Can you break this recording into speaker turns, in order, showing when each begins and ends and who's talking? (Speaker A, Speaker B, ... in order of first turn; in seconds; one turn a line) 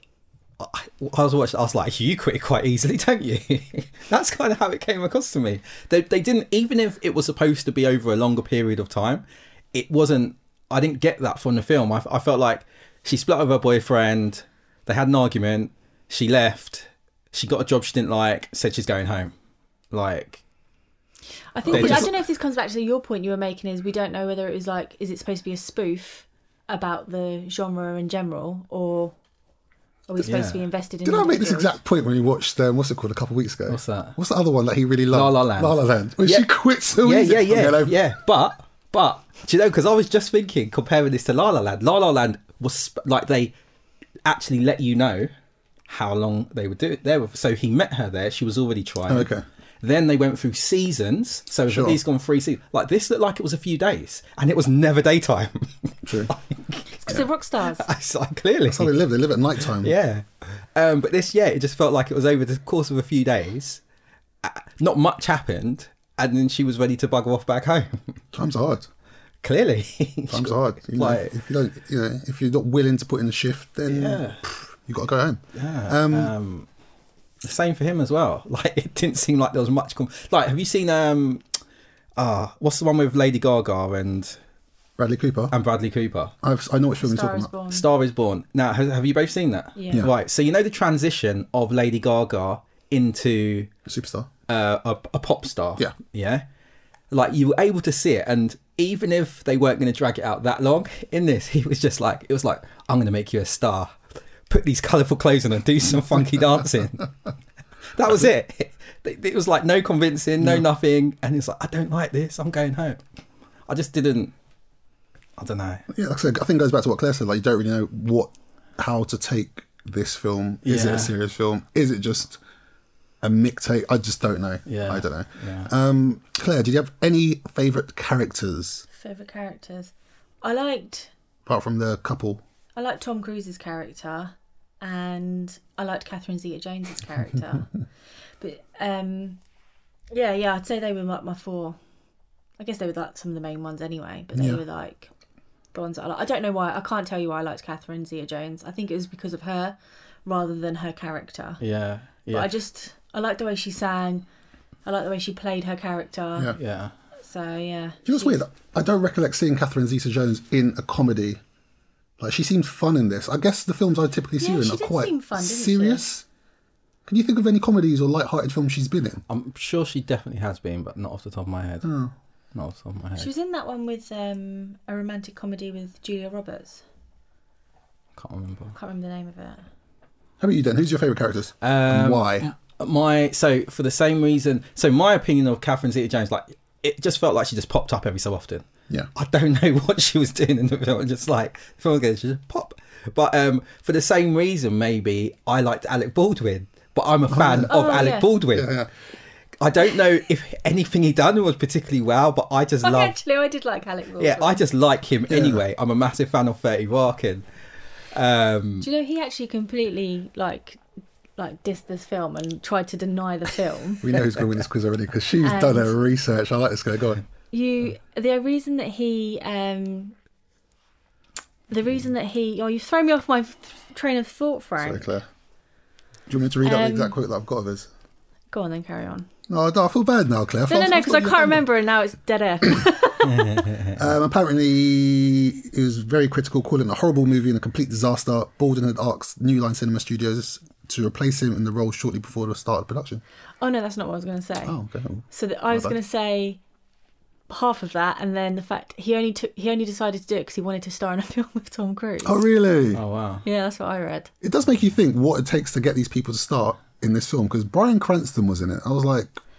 Speaker A: 0.6-19.3
Speaker A: 19.9-20.4
Speaker B: 21.5-29.1
Speaker A: 21.7-22.1
Speaker C: 21.7-22.1
Speaker B: 30.1-31.8
Speaker A: 30.2-30.6
Speaker C: 31.0-38.0
Speaker A: 33.7-34.1
Speaker A: 35.1-43.5
Speaker A: 44.2-45.3
Speaker A: 45.9-49.3
Speaker C: 49.1-49.4
Speaker A: 49.8-58.9
Speaker C: 51.7-52.0
Speaker C: 56.0-56.3
Speaker B: 57.0-57.9
Speaker C: 58.7-59.9
Speaker A: 59.7-63.8
Speaker A: 64.4-68.2
Speaker C: 68.3-68.9
Speaker A: 69.4-71.4
Speaker C: 70.3-76.3
Speaker A: 73.9-74.4
Speaker A: 75.5-76.7
Speaker A: 77.4-81.4
Speaker A: 82.2-84.4
Speaker C: 85.0-85.5
Speaker A: 85.5-86.3
Speaker C: 86.4-87.5
Speaker B: 87.0-87.8
Speaker A: 87.7-93.7
Speaker B: 89.8-90.1
Speaker C: 93.8-94.3
Speaker A: 94.5-96.4
Speaker A: 97.1-104.0
Speaker A: 104.5-107.1
Speaker A: 107.9-113.0
Speaker A: 113.7-114.3
Speaker A: 115.4-115.8
Speaker C: 115.9-122.4
Speaker A: 120.6-121.1
Speaker C: 123.2-128.8
Speaker A: 124.7-125.7
Speaker B: 128.9-131.1
Speaker C: 131.4-132.4
Speaker B: 132.8-137.7
Speaker B: 138.4-139.4
Speaker B: 140.1-141.8
Speaker B: 142.6-145.1
Speaker C: 144.3-144.6
Speaker B: 145.7-151.6
Speaker A: 151.6-152.5
Speaker B: 152.3-154.2
Speaker B: 154.8-156.5
Speaker A: 156.6-156.9
Speaker B: 157.2-158.4
Speaker C: 158.0-161.4
Speaker C: 162.2-166.2
Speaker B: 164.4-166.1
Speaker C: 167.1-169.2
Speaker A: 169.3-171.9
Speaker C: 171.8-172.1
Speaker A: 172.5-173.3
Speaker B: 173.2-176.8
Speaker A: 178.2-178.7
Speaker B: 178.7-179.6
Speaker C: 180.4-182.5
Speaker A: 181.6-198.8
Speaker C: 197.3-198.9
Speaker B: 197.6-198.3
Speaker A: 199.6-203.1
Speaker B: 202.8-204.6
Speaker A: 204.2-207.4
Speaker C: 205.3-205.6
Speaker A: 208.1-208.9
Speaker B: 208.8-210.8
Speaker B: 211.4-214.0
Speaker C: 214.0-217.2
Speaker B: 215.4-215.9
Speaker B: 217.5-220.1
Speaker B: 221.7-225.1
Speaker C: 224.8-225.2
Speaker C: 226.3-227.9
Speaker B: 226.6-227.2
Speaker B: 228.5-229.3
Speaker C: 229.5-231.6
Speaker B: 230.7-233.7
Speaker A: 233.2-234.0
Speaker C: 233.9-243.2
Speaker B: 243.6-244.8
Speaker C: 244.6-245.9
Speaker B: 245.3-246.6
Speaker B: 247.5-252.4
Speaker C: 252.2-253.0
Speaker A: 252.9-253.4
Speaker B: 253.4-254.3
Speaker C: 254.4-259.4